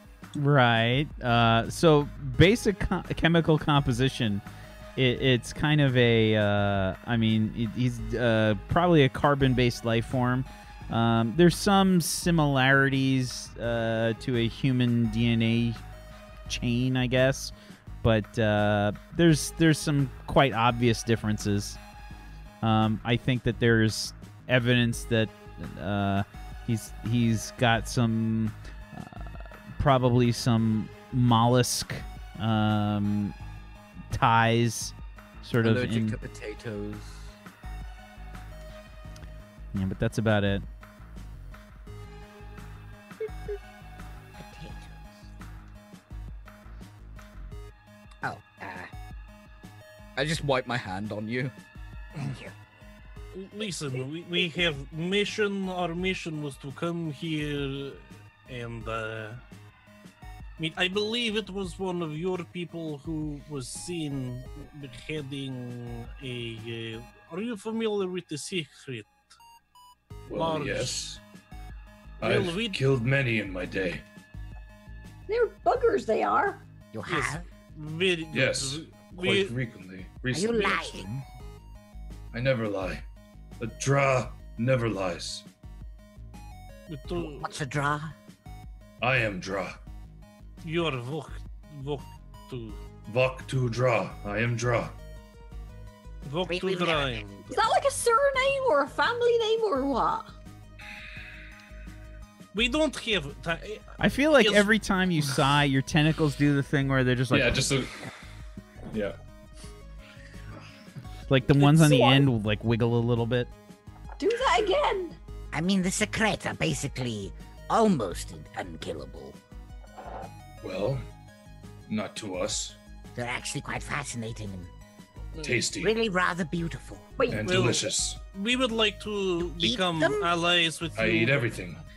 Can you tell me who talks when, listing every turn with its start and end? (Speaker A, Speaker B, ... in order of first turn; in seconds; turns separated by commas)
Speaker A: 0.3-4.4, Speaker A: 5.0-15.8, Speaker A: 16.5-21.8, Speaker A: 22.6-33.4, Speaker A: 34.1-36.2, Speaker B: 35.6-37.4, Speaker A: 39.7-40.6, Speaker C: 44.4-45.3, Speaker C: 48.2-48.9, Speaker B: 50.2-51.5, Speaker C: 52.2-52.5, Speaker D: 53.3-59.4, Speaker D: 60.6-69.3, Speaker E: 70.3-71.2, Speaker D: 70.3-71.1, Speaker D: 72.2-72.8, Speaker E: 72.2-74.0, Speaker F: 75.3-76.6, Speaker C: 76.9-77.4, Speaker D: 77.1-79.5, Speaker E: 78.3-81.2, Speaker C: 80.3-81.1, Speaker E: 82.3-83.0, Speaker E: 83.6-85.5, Speaker D: 86.9-87.5, Speaker C: 87.2-88.1, Speaker E: 89.0-89.8, Speaker D: 90.6-92.8, Speaker E: 93.1-95.0, Speaker D: 96.2-97.7, Speaker C: 96.5-97.2, Speaker F: 97.5-100.3, Speaker D: 102.5-104.7, Speaker A: 104.0-107.8, Speaker E: 107.3-108.0, Speaker E: 108.9-109.2, Speaker A: 111.3-113.5, Speaker F: 111.6-112.1, Speaker F: 114.2-115.2, Speaker C: 115.5-119.4, Speaker E: 120.6-121.0, Speaker E: 121.9-122.8, Speaker C: 123.2-124.7, Speaker E: 125.4-125.9, Speaker C: 125.8-127.1, Speaker F: 127.2-127.5, Speaker E: 127.3-128.2, Speaker D: 127.4-131.5, Speaker C: 129.4-130.3, Speaker E: 130.9-131.8